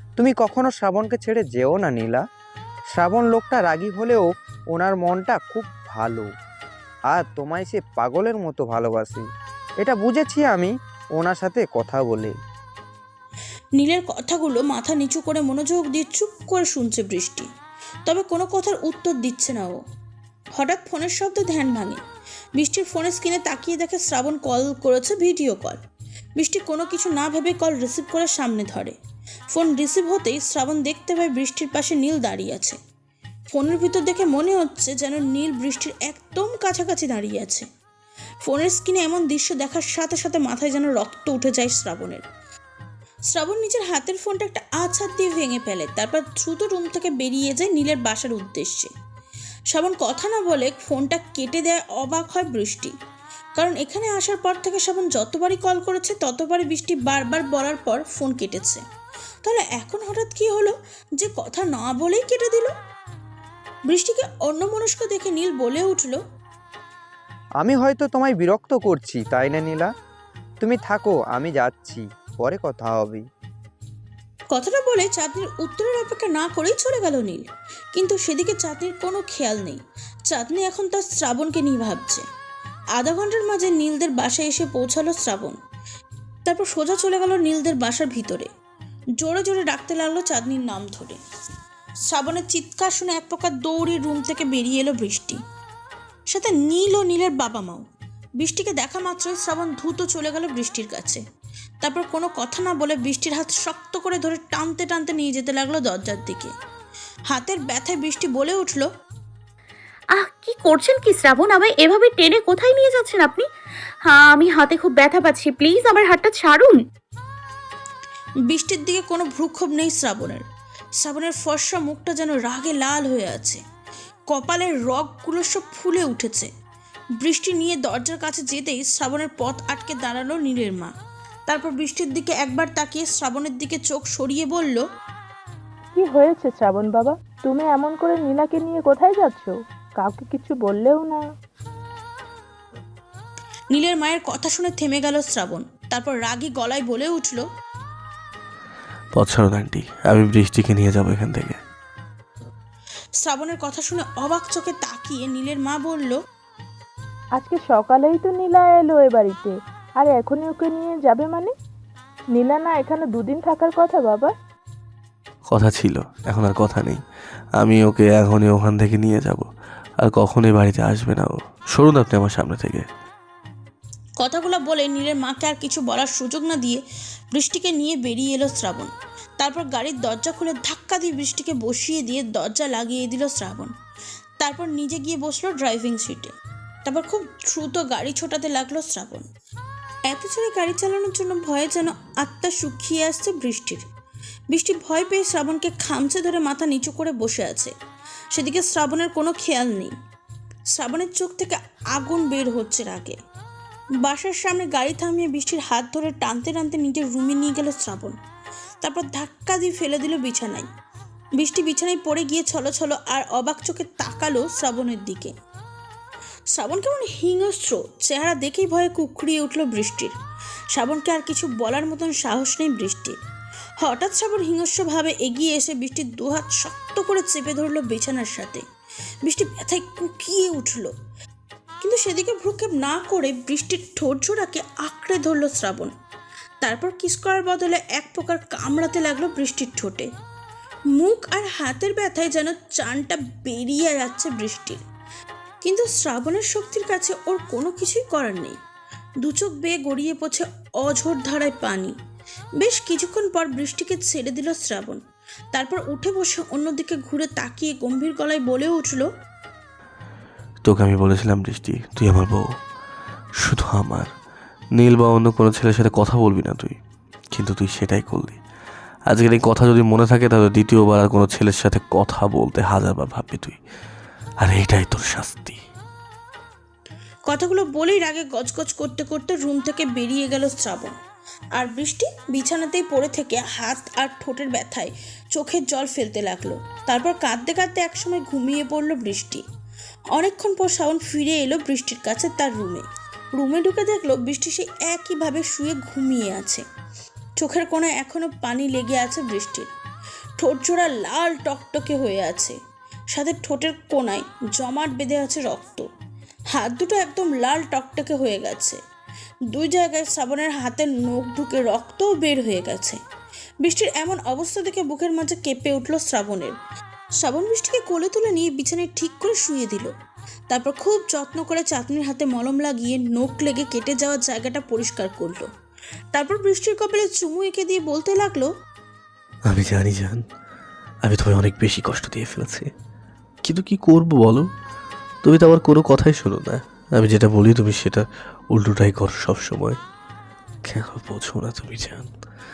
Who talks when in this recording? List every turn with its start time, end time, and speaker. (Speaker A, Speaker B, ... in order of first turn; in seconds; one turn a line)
Speaker A: 0.2-2.2
Speaker A: 2.9-6.3
Speaker A: 7.1-9.2
Speaker A: 9.8-12.3
Speaker B: 13.8-17.5
Speaker B: 18.1-19.8
Speaker B: 20.5-22.0
Speaker B: 22.6-25.8
Speaker B: 26.4-28.9
Speaker B: 29.5-32.8
Speaker B: 33.5-37.6
Speaker B: 38.4-42.2
Speaker B: 43.3-48.9
Speaker B: 49.7-52.9
Speaker B: 53.5-58.8
Speaker B: 59.4-62.7
Speaker B: 63.9-66.2
Speaker A: 67.6-69.9
Speaker A: 70.6-73.2
Speaker B: 74.5-82.2
Speaker B: 83.0-85.6
Speaker B: 86.5-88.5
Speaker B: 89.2-91.2
Speaker B: 92.1-95.4
Speaker B: 96.3-97.8
Speaker B: 98.4-101.2
Speaker B: 101.8-106.5
Speaker B: 107.3-108.9
Speaker C: 110.1-113.5
Speaker C: 114.0-116.8
Speaker B: 118.5-120.4
Speaker B: 121.0-123.6
Speaker B: 124.3-126.5
Speaker B: 127.2-130.9
Speaker B: 131.5-134.8
Speaker D: 135.9-141.2
Speaker B: 143.7-147.4
Speaker E: 149.1-151.6
Speaker B: 153.2-156.2
Speaker D: 157.3-161.5
Speaker D: 162.3-164.3
Speaker E: 165.5-167.0
Speaker E: 167.6-169.5
Speaker E: 170.0-172.9
Speaker B: 174.2-176.8
Speaker B: 177.3-183.7
Speaker B: 184.4-186.3
Speaker B: 186.8-189.2
Speaker B: 190.1-193.8
Speaker B: 194.5-197.7
Speaker B: 198.3-199.9
Speaker B: 200.7-203.2
Speaker B: 204.0-208.1
Speaker B: 208.8-210.7
Speaker B: 211.4-215.3
Speaker B: 216.5-220.1
Speaker B: 220.7-223.2
Speaker B: 223.8-228.6
Speaker B: 229.2-230.9
Speaker B: 231.8-235.9
Speaker B: 236.6-240.1
Speaker B: 241.0-244.8
Speaker B: 245.6-248.6
Speaker B: 249.2-251.9
Speaker B: 252.6-255.0
Speaker B: 255.5-259.1
Speaker E: 260.6-262.5
Speaker E: 263.4-264.1
Speaker E: 264.8-266.8
Speaker E: 267.3-268.4
Speaker E: 269.1-273.6
Speaker E: 274.4-275.6
Speaker B: 277.3-280.9
Speaker B: 281.5-289.4
Speaker B: 290.1-296.6
Speaker B: 297.4-299.7
Speaker B: 300.4-302.6
Speaker B: 303.1-305.9
Speaker B: 306.5-308.8
Speaker B: 309.5-313.0
Speaker B: 313.6-316.5
Speaker B: 317.2-319.9
Speaker B: 320.5-325.5
Speaker B: 326.1-328.5
Speaker E: 329.5-330.2
Speaker E: 331.0-332.7
Speaker E: 333.4-334.5
Speaker E: 335.2-339.8
Speaker E: 340.6-342.1